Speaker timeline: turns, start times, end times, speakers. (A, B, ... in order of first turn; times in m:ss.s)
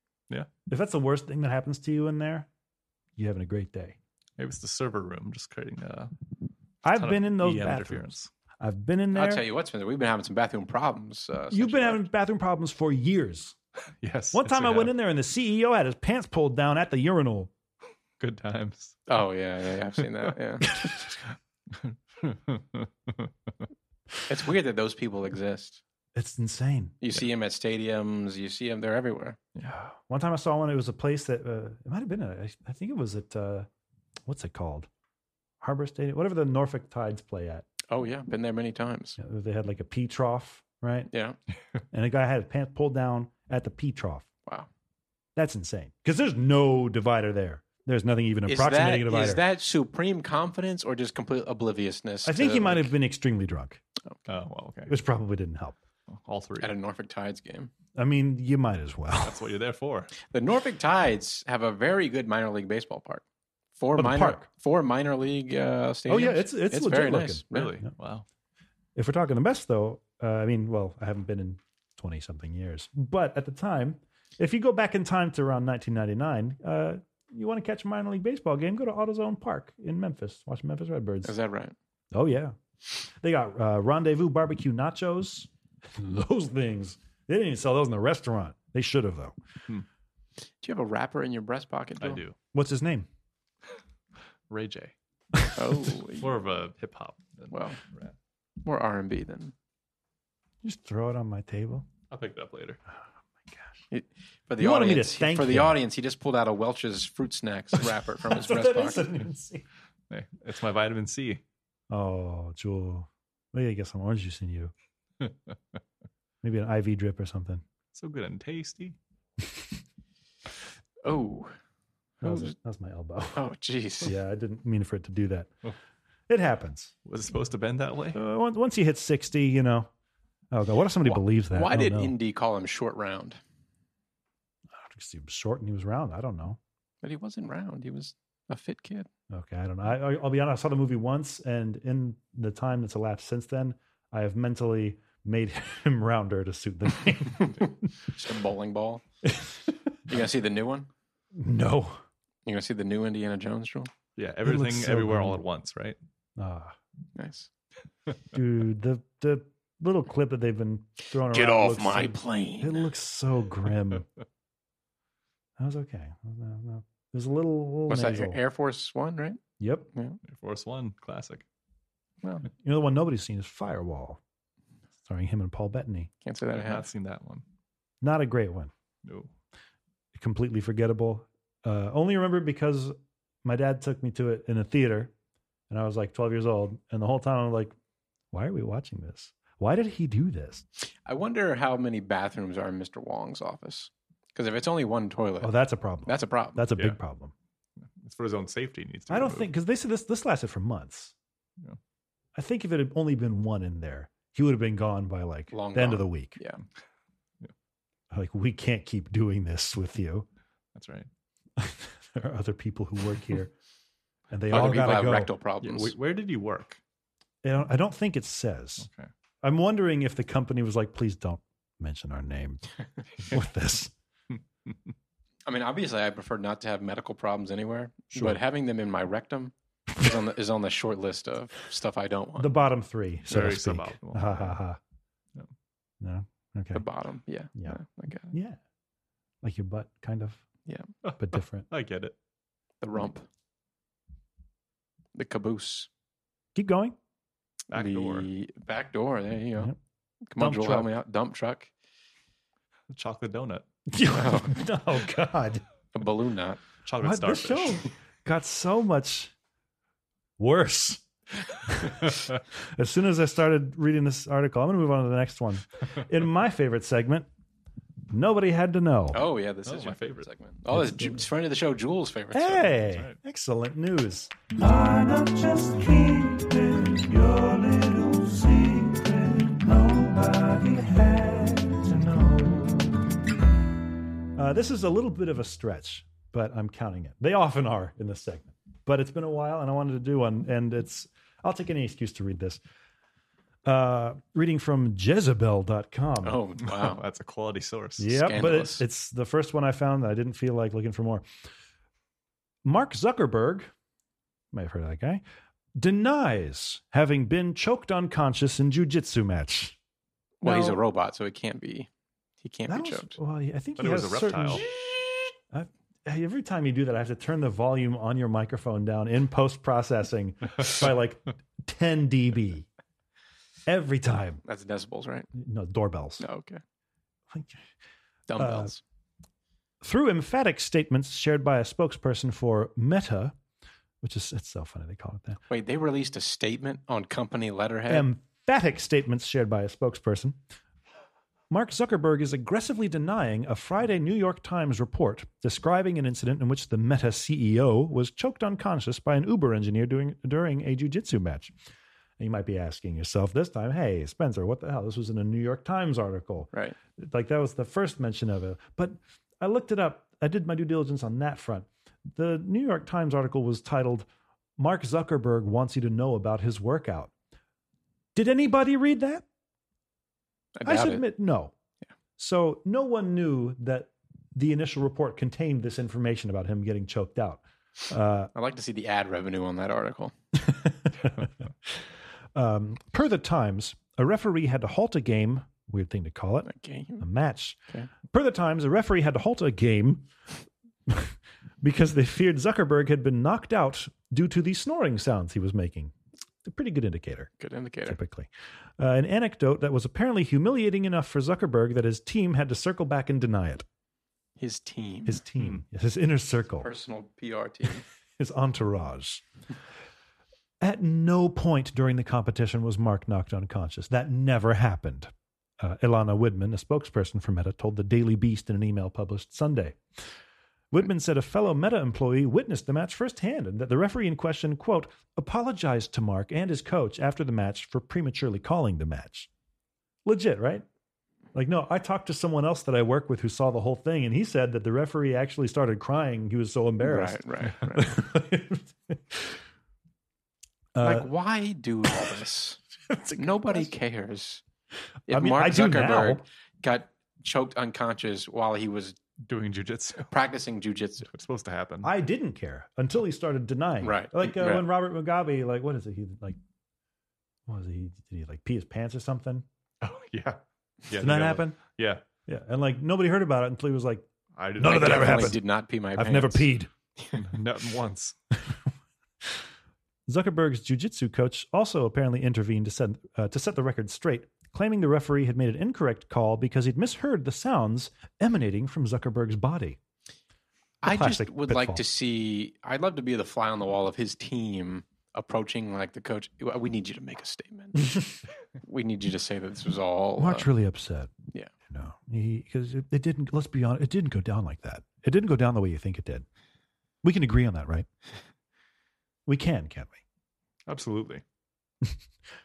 0:00.7-0:02.5 A
0:03.2-0:04.0 A
0:04.4-0:06.1 B
0:06.8-0:09.4 A
0:06.9-0:08.3 B
0:09.1-0:12.0 C
0:11.5-0:13.6 A
0:14.0-0:14.9 B
0:14.3-0:17.5 A
0:18.2-0:19.1 B
0:19.1-0:20.8 C
0:20.8-0:21.1 A
0:21.7-0:23.3 B
0:24.3-0:25.8 C
0:26.1-0:26.9 A
0:27.0-0:29.4 C
0:30.0-0:33.7 A
0:34.3-0:34.9 A
0:35.6-0:37.6 A
0:37.9-0:39.2 C
0:39.2-0:41.1 A
0:41.1-0:41.4 C
0:41.9-0:44.3 A
0:45.4-0:49.4 A
0:48.5-0:52.9 C
0:52.2-0:53.8 A
0:54.3-0:54.9 B
0:54.9-0:55.8 A
0:56.1-0:56.8 B
0:56.6-0:57.7 C
0:57.9-0:59.4 A
0:59.2-1:00.1 B
1:00.3-1:03.2 C
1:03.8-1:07.7 C
1:04.0-1:04.5 A
1:06.1-1:07.9 A
1:07.5-1:08.2 B
1:08.9-1:21.3 A
1:21.2-1:21.8 C
1:22.1-1:29.3 A
1:30.6-1:32.2 C
1:32.0-1:32.4 B
1:32.5-1:33.1 A
1:34.5-1:34.9 B
1:35.6-1:36.3 C
1:36.1-1:38.1 B
1:37.5-1:37.8 C
1:38.6-1:39.5 C
1:40.6-1:41.9 A
1:42.1-1:42.8 B
1:43.9-1:49.1 C
1:44.6-1:45.8 A
1:48.2-1:49.6 A
1:50.1-1:51.4 B
1:51.9-1:54.7 A
1:55.2-1:55.5 B
1:56.4-1:57.6 A
1:57.9-1:59.0 B
2:01.0-2:01.6 C
2:02.2-2:03.4 A
2:02.2-2:02.5 C
2:03.3-2:04.2 C
2:04.0-2:05.5 A
2:06.3-2:06.9 A
2:07.0-2:08.2 B
2:08.1-2:09.9 A
2:10.5-2:12.1 A
2:11.0-2:13.4 C
2:14.8-2:16.6 A
2:17.0-2:19.1 C
2:19.3-2:27.9 A
2:28.1-2:29.0 C
2:29.2-2:29.7 A
2:30.1-2:30.9 C
2:31.4-2:32.0 A
2:32.5-2:33.9 C
2:34.2-2:36.0 B
2:34.4-2:35.4 A
2:36.4-2:36.8 A
2:37.2-2:37.5 C
2:38.3-2:44.1 A
2:41.2-2:42.8 C
2:45.6-2:48.4 A
2:47.9-2:49.4 C
2:49.6-2:49.9 A
2:49.9-2:50.2 C
2:50.2-2:51.4 B
2:52.2-2:52.5 C
2:52.6-2:54.2 A
2:55.0-2:56.1 A
2:56.2-2:56.9 C
2:56.5-2:57.4 B
2:58.0-2:58.7 A
2:59.0-2:59.3 B
3:00.1-3:05.1 A
3:05.7-3:07.8 A
3:08.3-3:10.6 A
3:11.1-3:15.5 C
3:15.4-3:17.3 A
3:16.0-3:16.7 C
3:17.8-3:19.5 B
3:19.1-3:21.1 A
3:22.4-3:26.4 A
3:25.5-3:26.6 C
3:28.1-3:30.3 A
3:30.8-3:31.1 B
3:31.6-3:33.5 A
3:34.3-3:35.3 A
3:34.5-3:35.9 C
3:35.6-3:36.8 B
3:37.4-3:38.9 A
3:38.8-3:39.1 B
3:39.4-3:43.9 A
3:45.5-3:52.6 C
3:48.1-3:48.4 A
3:52.4-3:54.8 A
3:53.3-3:54.6 B
3:56.0-3:56.8 A
3:56.7-3:58.3 C
3:58.3-3:58.6 A
3:59.4-4:00.4 A
4:00.7-4:00.9 C
4:01.0-4:02.2 B
4:01.2-4:01.7 A
4:02.8-4:03.2 C
4:05.2-4:05.9 C
4:06.5-4:07.0 A
4:07.7-4:08.3 B
4:07.7-4:09.7 C
4:10.3-4:11.7 C
4:10.4-4:10.9 A
4:12.9-4:13.6 B
4:13.9-4:15.6 A
4:14.1-4:14.6 C
4:15.9-4:16.6 C
4:16.8-4:17.9 B
4:17.0-4:19.3 A
4:20.4-4:21.0 A
4:21.6-4:27.3 A
4:28.1-4:29.2 A
4:29.1-4:32.7 C
4:29.6-4:30.3 B
4:30.7-4:31.2 A
4:32.3-4:43.2 A
4:32.8-4:33.2 B
4:44.4-4:52.6 A
4:53.6-4:56.4 A
4:56.2-4:57.0 C
4:56.7-4:58.2 B
4:58.0-5:01.2 A
4:58.2-4:58.8 C
5:02.6-5:03.7 A
5:04.5-5:05.2 A
5:05.8-5:09.8 A
5:10.4-5:11.9 C
5:10.4-5:10.8 A
5:12.4-5:13.2 C
5:12.7-5:22.6 A
5:13.8-5:14.6 B
5:23.7-5:24.4 A
5:24.4-5:25.3 C
5:25.4-5:26.2 A
5:26.2-5:26.6 C
5:27.3-5:27.6 A
5:28.3-5:28.8 C
5:28.4-5:28.7 A
5:29.8-5:33.4 A
5:34.0-5:35.4 A
5:35.5-5:38.1 C
5:37.9-5:40.4 A
5:41.5-5:51.5 A
5:52.2-6:07.1 A
6:08.2-6:09.2 A
6:10.6-6:11.0 C
6:10.6-6:11.5 A
6:12.2-6:18.3 A
6:18.4-6:20.1 C
6:20.5-6:26.5 A
6:26.4-6:27.1 C
6:27.0-6:30.1 A
6:30.9-6:37.3 A
6:37.4-6:38.0 C
6:37.9-6:43.6 A
6:44.4-6:45.2 C
6:45.1-6:46.7 A
6:46.6-6:47.8 C
6:48.2-6:49.2 A
6:50.6-6:59.8 A
7:00.7-7:09.3 A
7:10.0-7:10.6 A
7:11.3-7:19.4 A
7:16.8-7:18.0 C
7:20.8-7:21.1 A
7:20.8-7:22.6 C
7:22.9-7:23.7 A
7:23.2-7:24.4 C
7:25.1-7:29.0 C
7:25.1-7:26.2 A
7:29.2-7:30.1 B
7:30.1-7:31.1 C
7:31.1-7:31.9 B
7:31.8-7:36.4 A
7:33.8-7:34.6 C
7:37.5-7:39.4 A
7:39.8-7:42.0 B
7:40.9-7:41.6 A
7:42.2-7:44.1 A
7:44.4-7:45.4 B
7:44.6-7:45.4 A
7:44.6-7:47.2 C
7:45.9-7:46.7 A
7:47.1-7:48.2 B
7:50.1-7:59.8 A
8:00.8-8:08.1 C
8:00.8-8:01.8 A
8:08.6-8:10.5 C
8:10.2-8:11.1 A
8:11.7-8:16.2 A
8:17.0-8:17.9 A
8:19.2-8:20.0 A
8:20.7-8:21.2 B